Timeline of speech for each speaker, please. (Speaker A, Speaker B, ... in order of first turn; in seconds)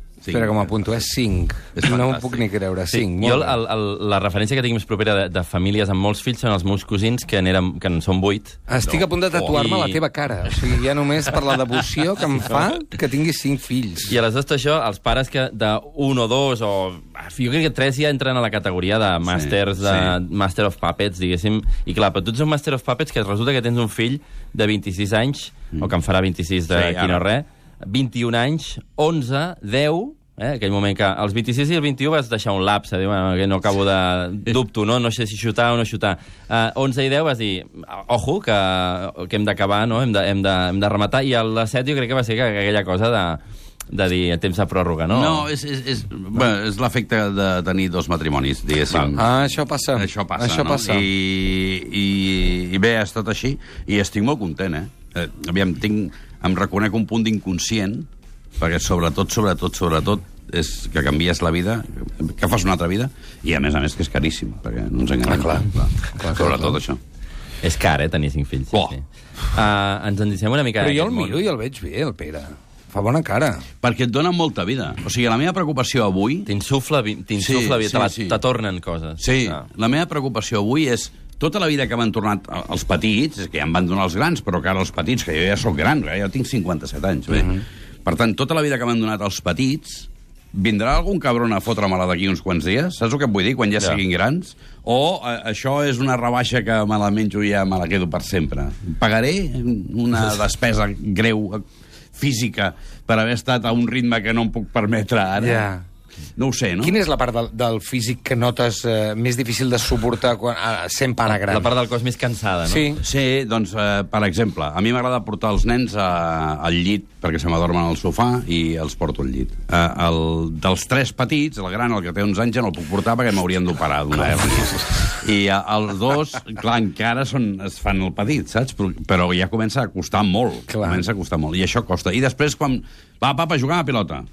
Speaker A: 0.2-0.9, 1.8-2.4, 19.3-20.2, 26.7-27.2, 45.1-49.4, 50.0-58.1, 58.6-67.0, 73.8-76.5, 77.4-78.4, 79.2-101.6, 102.2-105.7, 106.4-107.0, 113.0-134.3
Speaker B: 0.3-3.6, 8.7-14.2, 49.0-51.1, 65.2-66.8, 70.8-73.6, 105.4-105.8, 106.8-111.7, 112.7-113.0, 124.4-124.9, 130.7-131.1
Speaker C: 2.9-8.6, 9.3-10.0, 14.1-43.4, 43.9-45.5, 67.6-71.4, 76.5-79.6, 111.3-113.0